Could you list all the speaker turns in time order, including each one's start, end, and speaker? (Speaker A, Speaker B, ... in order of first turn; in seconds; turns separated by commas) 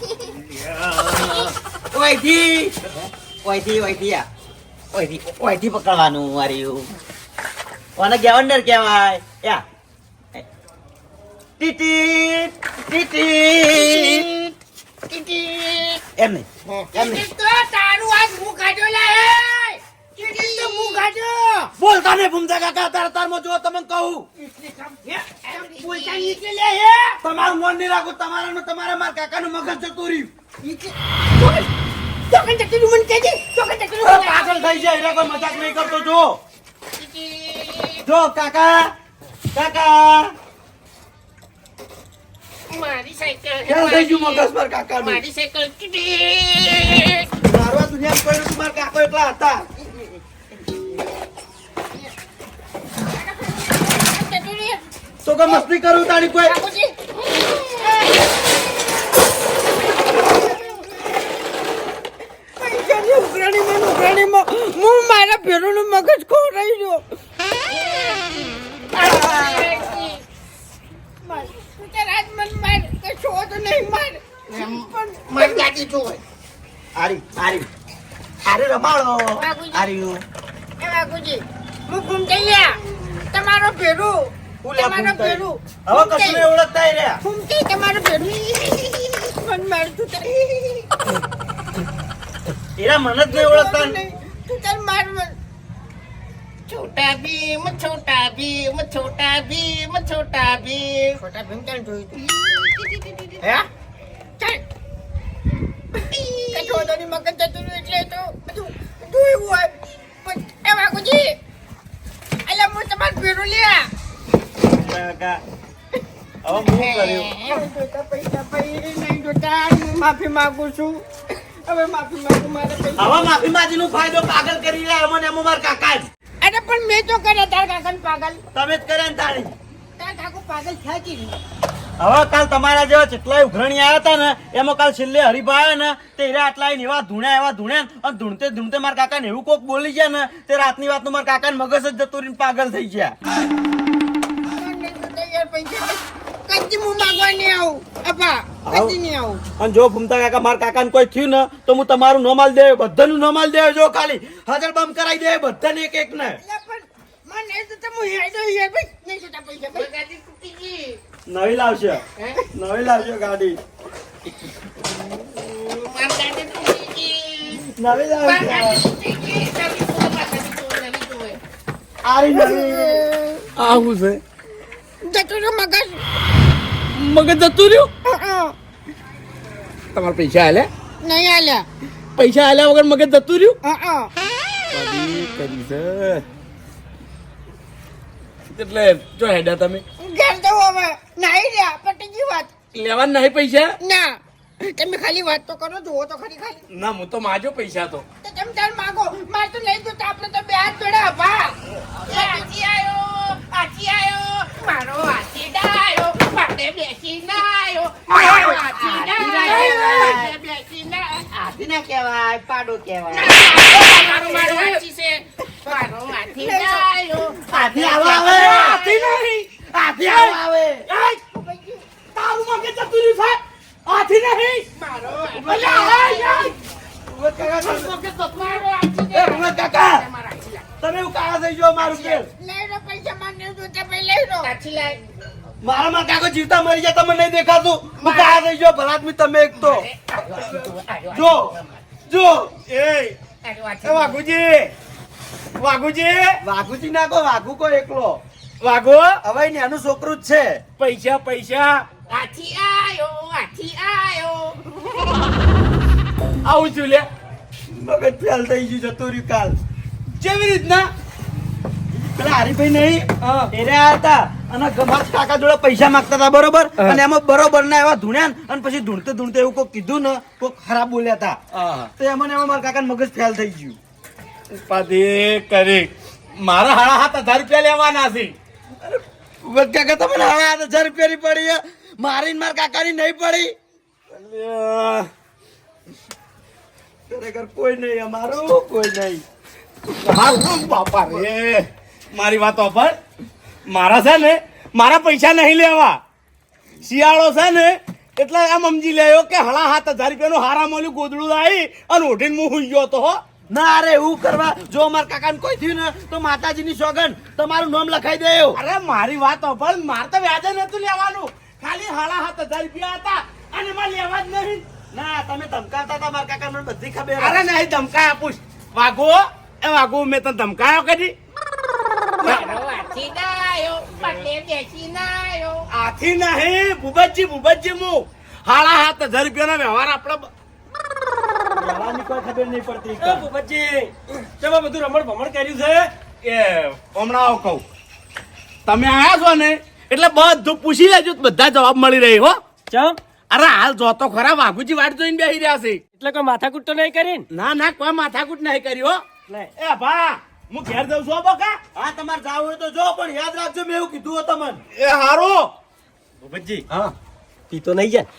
Speaker A: 0.8-1.4, Speaker B: 1.9-2.9, Speaker B: 3.4-4.3, Speaker B: 4.9-6.9, Speaker B: 8.0-9.6, Speaker B: 11.6-14.3, Speaker C: 13.7-14.5, Speaker C: 15.1-16.0, Speaker B: 16.2-17.2, Speaker C: 16.9-21.7, Speaker D: 20.2-21.0, Speaker B: 21.8-24.3, Speaker C: 24.4-27.2, Speaker D: 25.5-26.4, Speaker B: 27.2-30.3, Speaker C: 30.6-31.7, Speaker C: 32.3-36.0, Speaker B: 34.0-36.4, Speaker D: 37.0-38.0, Speaker B: 38.0-38.9, Speaker B: 39.5-40.3, Speaker D: 42.7-44.5, Speaker B: 43.7-45.2, Speaker D: 45.0-47.3, Speaker B: 47.4-49.7, Speaker C: 53.0-54.8, Speaker B: 55.2-56.6, Speaker C: 56.4-58.3, Speaker C: 60.0-61.2, Speaker C: 62.6-67.0, Speaker C: 67.7-70.2, Speaker D: 69.0-70.0, Speaker C: 71.2-75.7, Speaker D: 74.5-76.2, Speaker B: 76.9-77.7, Speaker B: 78.4-80.2, Speaker C: 79.3-79.9, Speaker C: 80.8-86.5, Speaker B: 84.6-87.2, Speaker C: 87.2-90.9, Speaker B: 92.8-94.0, Speaker C: 93.3-95.3, Speaker D: 96.7-101.2, Speaker C: 101.2-103.6, Speaker C: 106.0-111.3, Speaker D: 106.5-106.8, Speaker C: 112.4-113.9, Speaker B: 114.6-115.4, Speaker B: 116.4-117.3, Speaker D: 116.7-117.6, Speaker C: 116.8-123.3, Speaker B: 123.0-126.1, Speaker C: 126.4-128.4, Speaker B: 128.5-129.5, Speaker C: 130.0-131.4, Speaker B: 132.0-143.2, Speaker C: 144.5-149.4, Speaker B: 148.7-149.0, Speaker B: 149.6-156.4, Speaker C: 156.4-159.9, Speaker D: 159.7-161.0, Speaker B: 161.3-162.0, Speaker B: 162.5-163.6, Speaker D: 165.0-167.7, Speaker B: 167.7-168.8, Speaker D: 168.2-171.4, Speaker B: 172.0-173.0, Speaker C: 172.3-173.5, Speaker A: 173.6-174.2, Speaker C: 175.0-176.0, Speaker A: 176.9-177.9, Speaker C: 178.0-178.5, Speaker A: 179.9-180.7, Speaker C: 181.0-181.7, Speaker A: 182.2-183.6, Speaker C: 183.6-184.1, Speaker A: 184.7-186.2, Speaker A: 188.5-189.8, Speaker C: 190.0-192.5, Speaker A: 192.7-193.7, Speaker C: 193.8-196.6, Speaker A: 196.7-198.0, Speaker C: 198.2-202.5, Speaker D: 202.0-211.3, Speaker C: 208.2-210.2, Speaker B: 208.9-210.3, Speaker B: 211.3-213.3, Speaker D: 213.1-219.2, Speaker C: 213.3-214.8, Speaker C: 216.3-216.8, Speaker B: 217.5-218.8, Speaker C: 218.0-218.8, Speaker A: 218.8-219.1, Speaker B: 219.7-220.9, Speaker C: 221.0-221.8, Speaker A: 222.2-223.3, Speaker D: 224.8-226.5, Speaker B: 225.3-226.2, Speaker C: 225.4-226.5, Speaker B: 227.1-227.9, Speaker D: 227.6-230.6, Speaker B: 229.1-230.1, Speaker B: 230.8-232.3, Speaker C: 231.8-234.5, Speaker D: 234.4-235.0, Speaker B: 235.6-239.9, Speaker D: 238.0-238.5, Speaker D: 239.6-241.8, Speaker B: 241.1-241.5, Speaker B: 242.1-242.5, Speaker A: 242.7-243.1, Speaker D: 243.4-244.2, Speaker A: 243.8-244.7, Speaker A: 245.6-246.4, Speaker B: 246.4-248.2, Speaker A: 248.6-249.2, Speaker B: 249.2-250.6, Speaker A: 250.8-251.8, Speaker D: 252.1-254.6, Speaker A: 256.4-257.1, Speaker B: 257.7-259.6, Speaker A: 260.2-260.9, Speaker B: 262.1-271.4, Speaker A: 271.5-271.9, Speaker B: 272.0-273.8, Speaker A: 274.5-278.3, Speaker B: 278.8-283.5, Speaker A: 284.1-285.1, Speaker B: 287.1-289.2, Speaker A: 290.0-292.9, Speaker A: 293.7-296.0, Speaker A: 296.8-303.2, Speaker B: 303.5-308.6, Speaker A: 308.5-314.6, Speaker B: 314.9-317.4, Speaker A: 317.2-321.1, Speaker D: 322.2-325.7, Speaker A: 325.7-330.3, Speaker B: 331.6-333.2, Speaker E: 333.0-335.9, Speaker A: 336.2-337.6, Speaker A: 338.6-342.4, Speaker E: 342.7-343.0, Speaker A: 343.3-345.8, Speaker E: 345.9-347.2, Speaker A: 347.3-349.0, Speaker A: 349.6-351.6, Speaker B: 351.7-354.6, Speaker A: 354.7-355.5, Speaker A: 356.2-356.6, Speaker E: 357.5-358.1